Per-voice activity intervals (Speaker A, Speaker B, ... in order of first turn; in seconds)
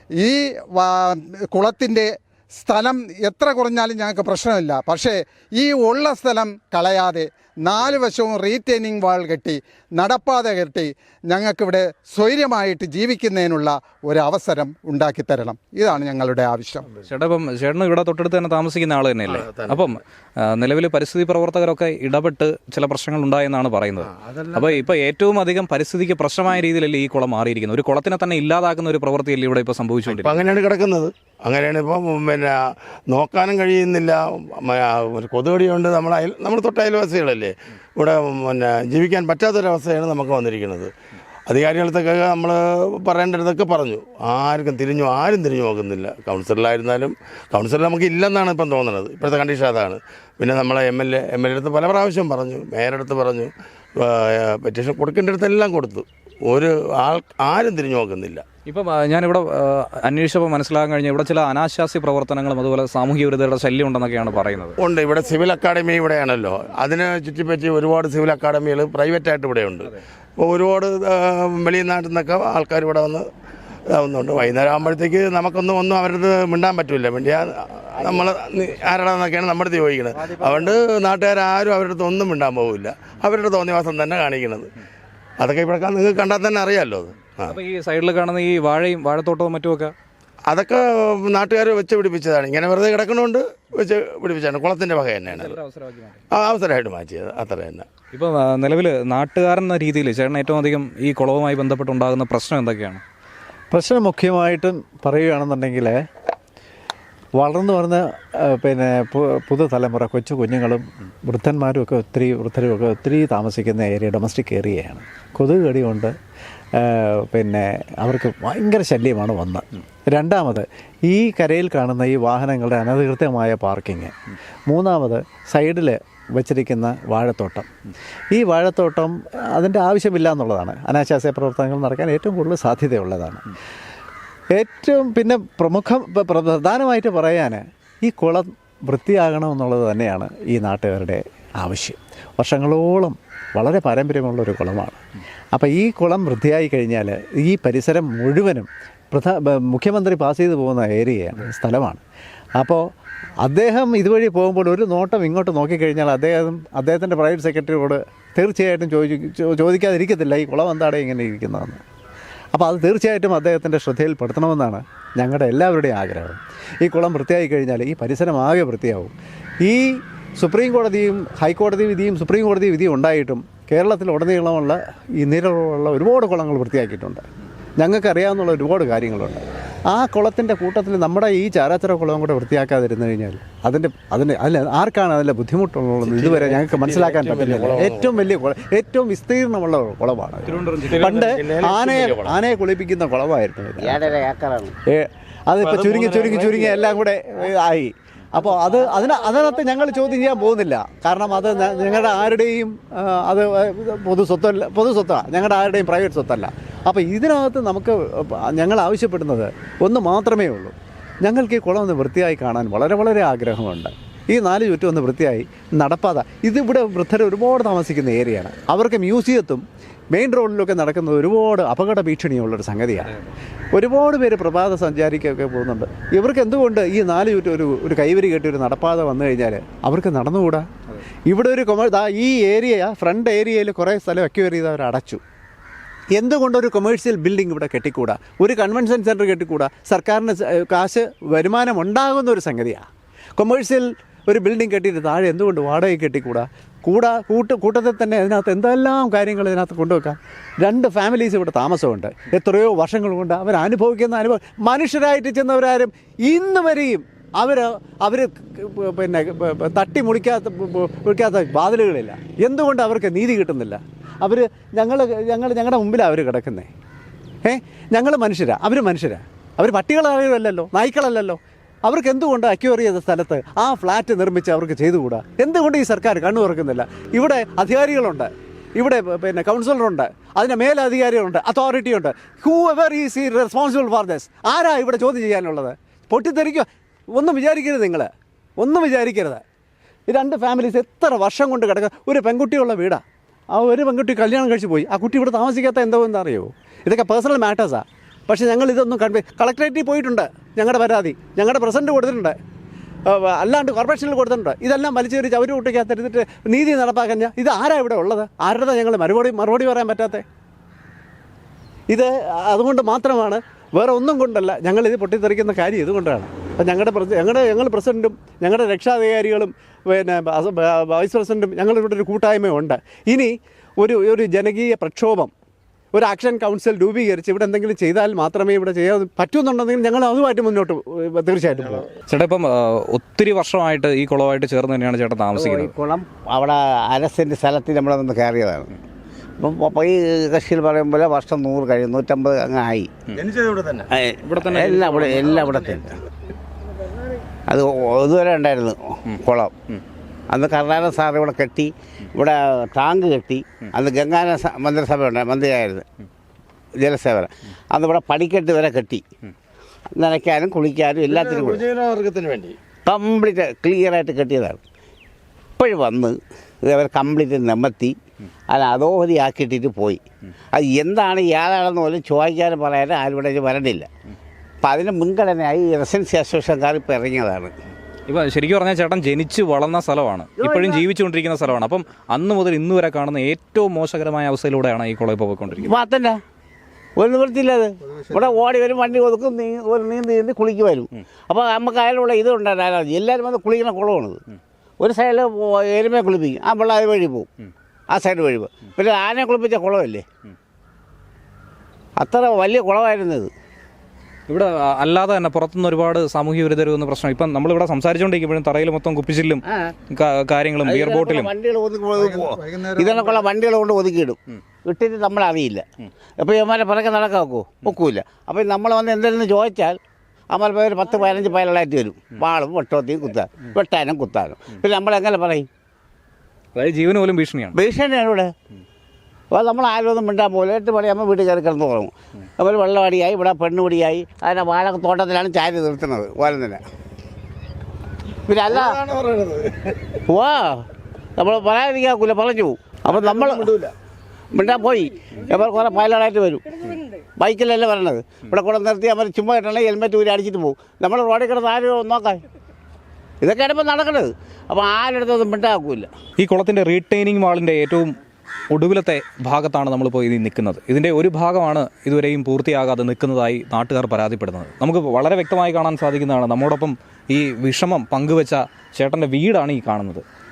Speaker A: 0.2-16.9, 412.0-413.2
Speaker B: 17.1-30.4, 58.7-64.8, 87.4-89.9, 95.3-96.2, 98.1-103.0, 190.5-191.3, 332.1-335.8, 344.2-345.8, 378.1-385.7, 404.3-411.3, 426.6-427.6, 456.2-457.9, 458.5-470.0
Speaker C: 19.3-19.9, 24.2-24.7, 30.1-32.5, 33.1-40.9, 41.5-58.4, 64.8-73.3, 73.9-84.7, 85.4-87.5, 90.5-95.5, 96.3-97.9, 186.0-188.1, 190.9-192.4, 195.6-196.9, 343.1-343.9, 361.1-362.6, 438.5-439.8, 442.9-443.7
Speaker D: 103.7-106.0, 107.4-116.2, 116.8-124.2, 124.7-127.7, 128.3-133.4, 134.5-145.0, 145.5-152.0, 152.6-152.9, 153.4-161.8, 162.5-177.3, 177.8-194.1, 194.9-223.2, 223.7-230.7, 231.3-235.2, 236.2-266.7, 267.4-289.4, 290.1-302.4, 303.1-310.2, 311.9-325.3, 325.9-331.9
Speaker E: 193.8-194.7, 335.4-338.7, 339.4-342.9, 343.9-346.0, 347.5-349.5, 350.3-355.9, 356.8-359.0, 359.9-361.7, 362.9-364.6, 365.6-368.0, 368.5-370.0, 370.5-373.9, 374.6-377.5, 380.4-380.8, 385.6-386.2, 387.0-394.2, 394.8-397.3, 397.9-400.1, 402.0-403.3, 410.6-415.6, 416.2-419.8, 420.3-425.5, 427.6-428.3, 429.3-436.6, 438.3-438.8, 440.1-440.6, 441.2-443.5, 444.3-452.2, 453.2-455.9